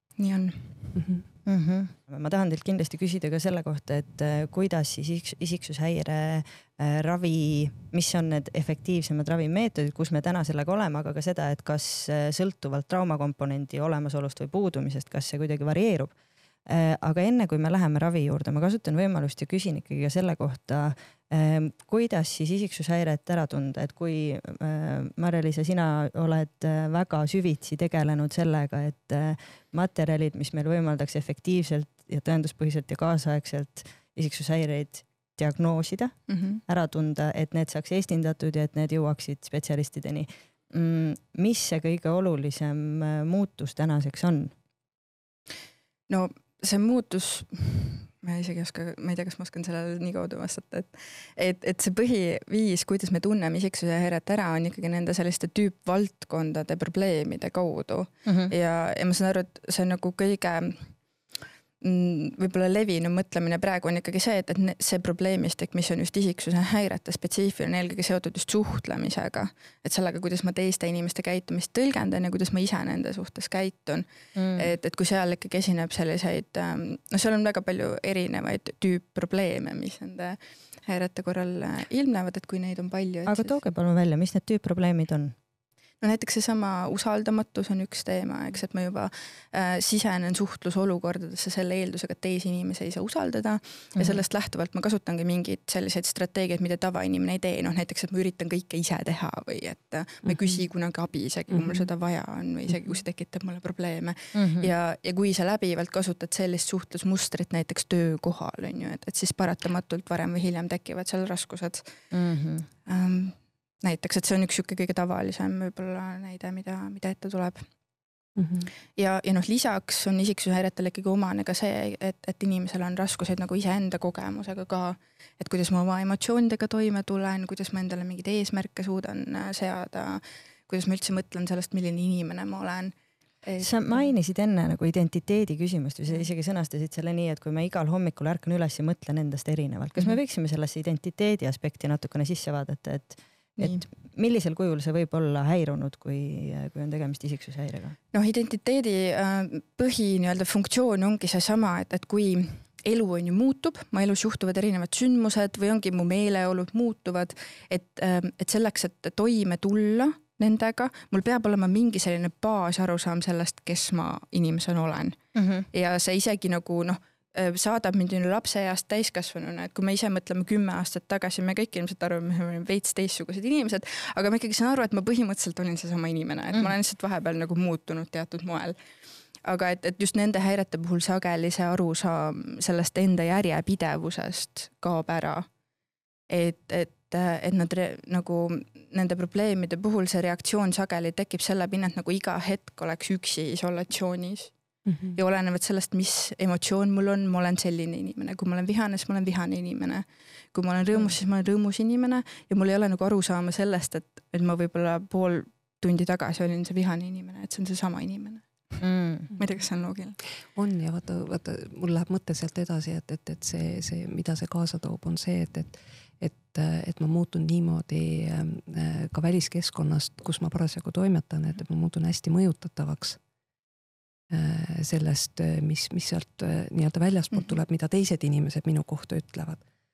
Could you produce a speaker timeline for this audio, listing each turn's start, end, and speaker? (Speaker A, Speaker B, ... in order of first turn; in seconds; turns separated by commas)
Speaker A: 0.2-0.9, Speaker B: 0.9-1.2, Speaker C: 1.4-16.1, Speaker C: 16.6-44.5, Speaker A: 36.3-36.6, Speaker A: 46.1-60.9, Speaker C: 58.2-58.5, Speaker A: 61.8-83.6, Speaker C: 74.3-74.7, Speaker C: 83.2-85.3, Speaker A: 86.0-112.0, Speaker C: 104.3-104.7, Speaker C: 112.1-112.7, Speaker A: 112.8-117.7, Speaker B: 118.4-118.7, Speaker A: 118.9-134.1, Speaker C: 133.6-148.0, Speaker A: 143.6-143.8, Speaker A: 148.1-165.2, Speaker C: 165.3-165.7, Speaker A: 165.7-178.7, Speaker A: 179.4-185.5, Speaker A: 186.3-194.5, Speaker B: 194.8-195.2, Speaker A: 195.1-208.8, Speaker C: 208.8-209.3, Speaker A: 209.4-210.2, Speaker B: 210.5-223.2, Speaker B: 224.3-229.6